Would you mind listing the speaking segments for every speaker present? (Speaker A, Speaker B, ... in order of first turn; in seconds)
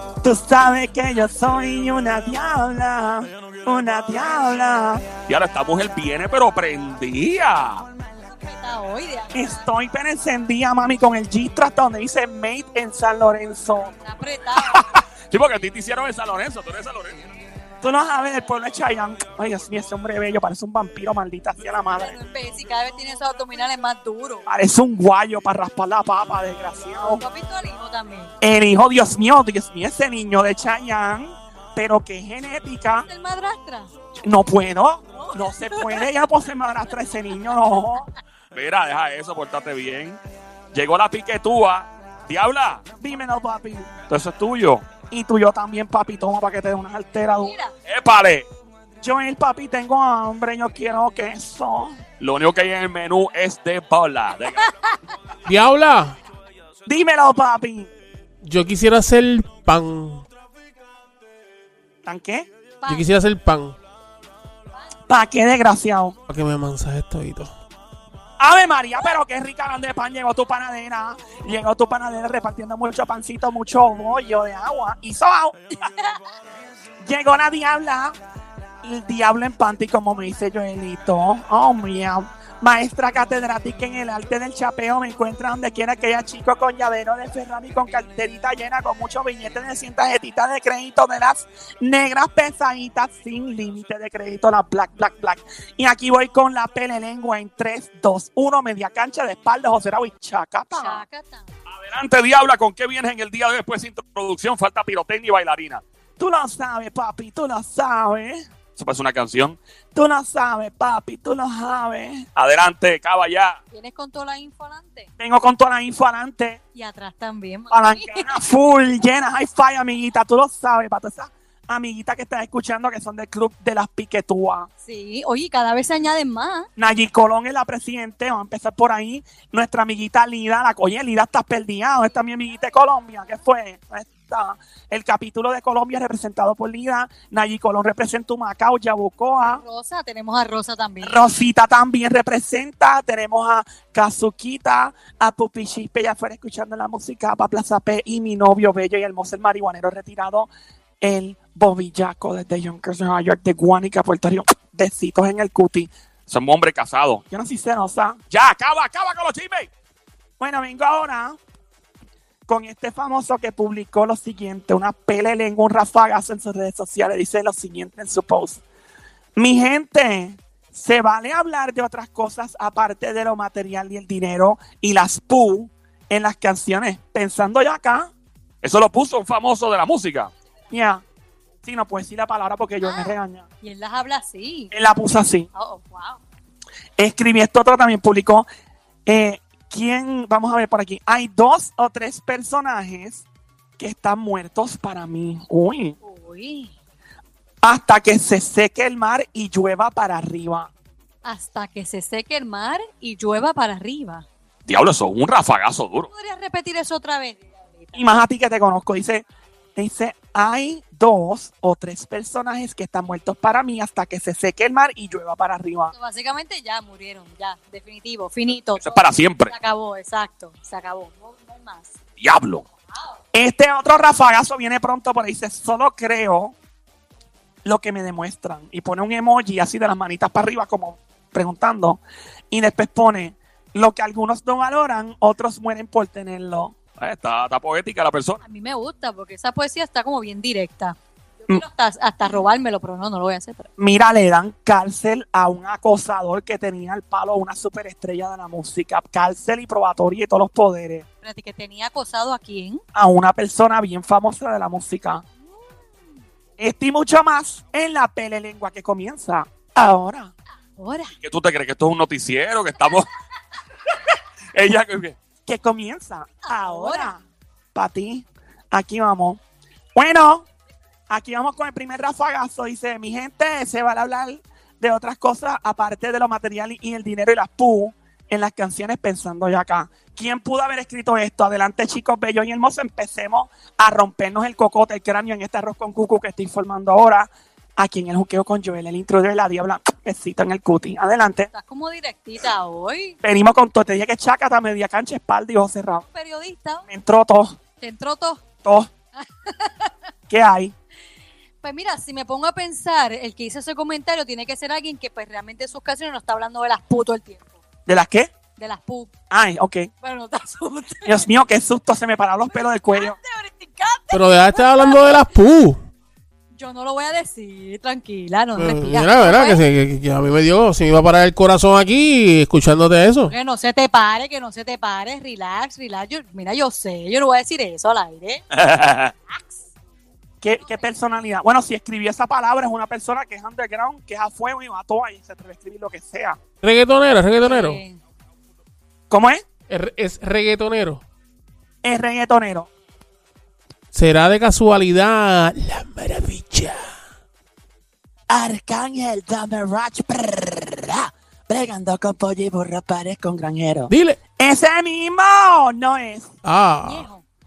Speaker A: 0.2-5.1, 9.3-14.0, 17.8-22.2, 24.5-27.2, 28.4-33.1, 34.2-38.1, 43.0-43.9, 45.1-47.5, 49.0-52.0, 56.9-57.9, 62.0-62.5, 65.1-66.2, 68.4-75.6, 77.0-78.2, 78.8-101.0, 106.2-108.5, 109.9-112.3, 115.2-116.6, 117.7-124.7, 126.8-139.6, 141.0-150.5, 151.0-155.9, 157.3-158.2, 160.4-161.4, 162.5-168.6, 169.4-178.1, 180.7-181.0, 181.6-183.4, 184.7-185.5, 187.0-188.5, 189.1-193.2, 193.8-196.0, 197.6-200.7, 207.9-209.2, 209.8-215.9, 223.3-226.5, 227.7-232.0, 232.5-236.7, 243.8-251.1, 252.9-255.2, 256.6-260.3, 265.4-267.2, 267.7-269.4, 270.0-270.5, 271.1-291.5, 293.2-296.1, 296.9-297.6, 298.6-298.9, 300.3-300.7, 307.9-308.3, 309.3-309.9, 311.1-313.2, 330.4-336.4, 339.1-339.4, 341.8-342.7, 348.3-356.3
Speaker B: 5.2-7.8, 15.3-17.2, 38.5-40.2, 40.7-42.8, 44.1-44.9, 47.9-48.5, 52.2-54.7, 101.7-105.8, 108.8-109.6, 112.4-113.6, 156.3-157.2, 158.3-159.7, 178.6-180.3, 204.7-206.1, 218.8-219.5, 222.2-222.6, 237.0-238.4, 261.2-263.1, 264.5-265.2, 328.5-329.1
Speaker C: 8.1-9.6, 14.0-14.8, 22.0-24.5, 27.0-28.3, 33.1-33.9, 35.1-36.1, 47.4-47.7, 54.6-55.0, 62.8-63.1, 75.8-76.2, 100.7-101.5, 113.7-115.1, 116.8-118.3, 124.8-126.7, 139.5-141.2, 182.8-184.7, 185.5-186.2, 196.0-196.7, 201.2-204.3, 206.1-208.1, 215.9-219.0, 219.5-221.9, 238.4-243.7, 251.2-252.8, 260.8-261.1, 266.4-267.1, 291.5-293.2, 296.1-296.9, 297.8-298.4, 299.2-299.9, 301.6-307.6, 308.6-309.1, 310.0-311.3, 312.5-315.3, 316.5-319.6, 323.3-328.4, 329.3-329.6, 330.6-330.9, 337.4-338.0, 356.8-357.2
Speaker D: 55.5-56.2, 58.4-60.3, 62.9-63.8, 66.3-67.5, 314.1-315.8, 318.6-323.3, 336.6-337.8, 339.7-341.0, 343.9-346.9, 353.9-354.2, 356.4-357.1